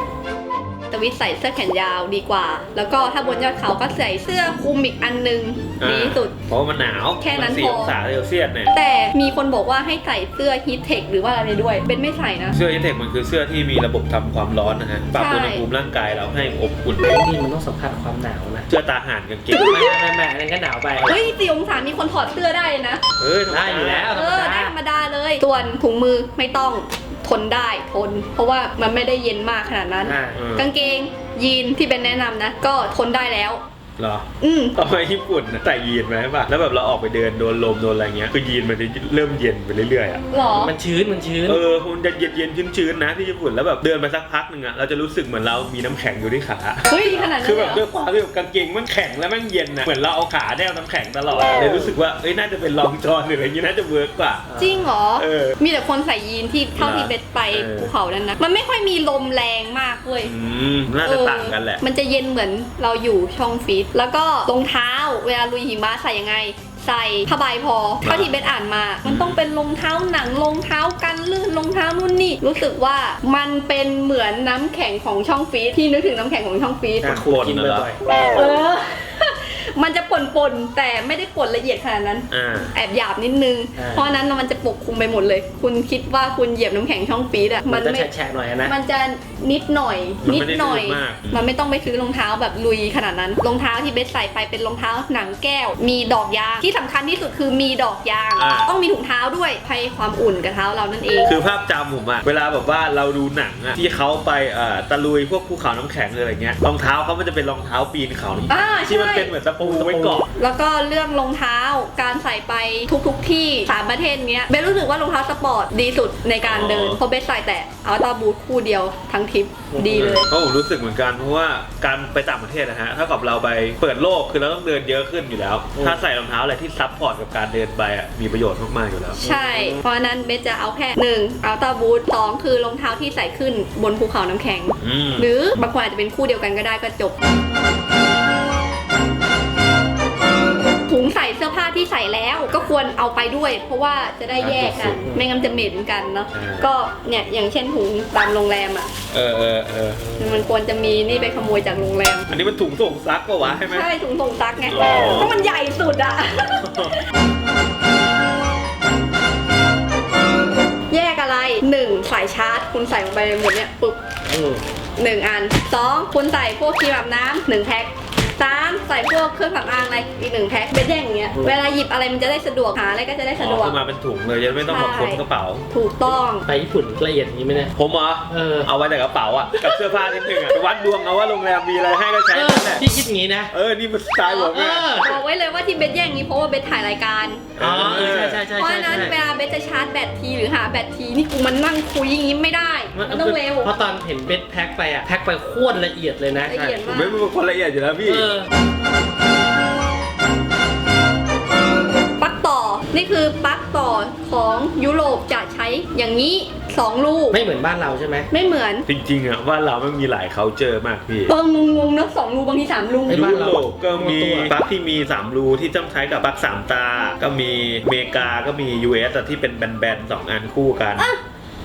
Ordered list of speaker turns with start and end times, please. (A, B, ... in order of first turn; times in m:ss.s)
0:00.9-0:06.3 A
0:05.8-0:08.7 B
0:07.2-0:07.9 A
0:08.7-0:12.6 A
0:12.5-0:17.0 B
0:15.1-0:15.6 A
0:17.0-0:18.7 C
0:18.7-0:19.8 B
0:19.5-0:19.9 A
0:19.5-0:21.2 C
0:20.9-0:21.2 B
0:21.0-0:23.0 A
0:23.2-0:24.1 B
0:23.5-0:24.7 C
0:24.1-0:33.6 A
0:30.0-0:30.4 C
0:30.3-0:30.7 B
0:34.0-0:40.2 B
0:34.4-0:34.8 A
0:40.3-0:40.7 A
0:40.5-0:41.6 C
0:41.4-0:54.5 B
0:46.8-0:47.8 A
0:54.5-0:54.9 C
0:54.6-1:00.3 A
0:55.2-0:55.6 B
0:56.8-0:57.9 B
1:00.2-1:01.8 B
1:01.0-1:17.2 A
1:08.0-1:08.3 B
1:09.0-1:09.4 B
1:17.0-1:18.0 C
1:17.0-1:17.9 B
1:18.3-1:28.1 A
1:22.3-1:22.7 B
1:23.8-1:24.1 C
1:27.7-1:28.7 C
1:28.6-1:41.3 A
1:30.2-1:31.5 B
1:38.4-1:38.7 B
1:41.2-1:50.3 B
1:48.5-1:49.3 A
1:49.6-1:50.2 C
1:50.3-2:00.3 A
1:56.4-1:57.0 B
1:59.7-2:00.1 C
1:59.9-2:09.2 B
2:05.7-2:06.0 C
2:09.2-2:17.2 A
2:09.2-2:09.8 C
2:14.8-2:15.6 B
2:20.9-2:28.9 A
2:24.4-2:25.1 B
2:26.3-2:26.7 B
2:29.1-2:30.1 B
2:30.2-2:32.3 A
2:32.3-2:33.9 B
2:33.7-2:36.8 A
2:34.7-2:35.3 B
2:36.4-2:36.9 B
2:40.9-2:44.0 A
2:44.3-2:44.6 C
2:45.0-2:53.8 A
2:53.4-2:55.7 B
2:54.6-2:56.4 A
2:56.4-2:57.7 C
2:57.8-3:02.8 B
2:58.3-2:58.7 C
3:00.2-3:00.5 A
3:02.3-3:03.5 C
3:03.5-3:05.0 B
3:04.2-3:07.5 A
3:04.5-3:05.2 C
3:07.6-3:08.4 B
3:07.6-3:09.2 C
3:08.1-3:13.7 A
3:12.9-3:16.8 C
3:16.5-3:17.3 A
3:16.9-3:18.3 B
3:18.0-3:18.5 C
3:22.2-3:27.4 A
3:27.3-3:28.3 C
3:28.3-3:28.8 A
3:28.9-3:31.3 B
3:31.3-3:33.4 A
3:33.1-3:34.5 C
3:33.1-3:41.1 B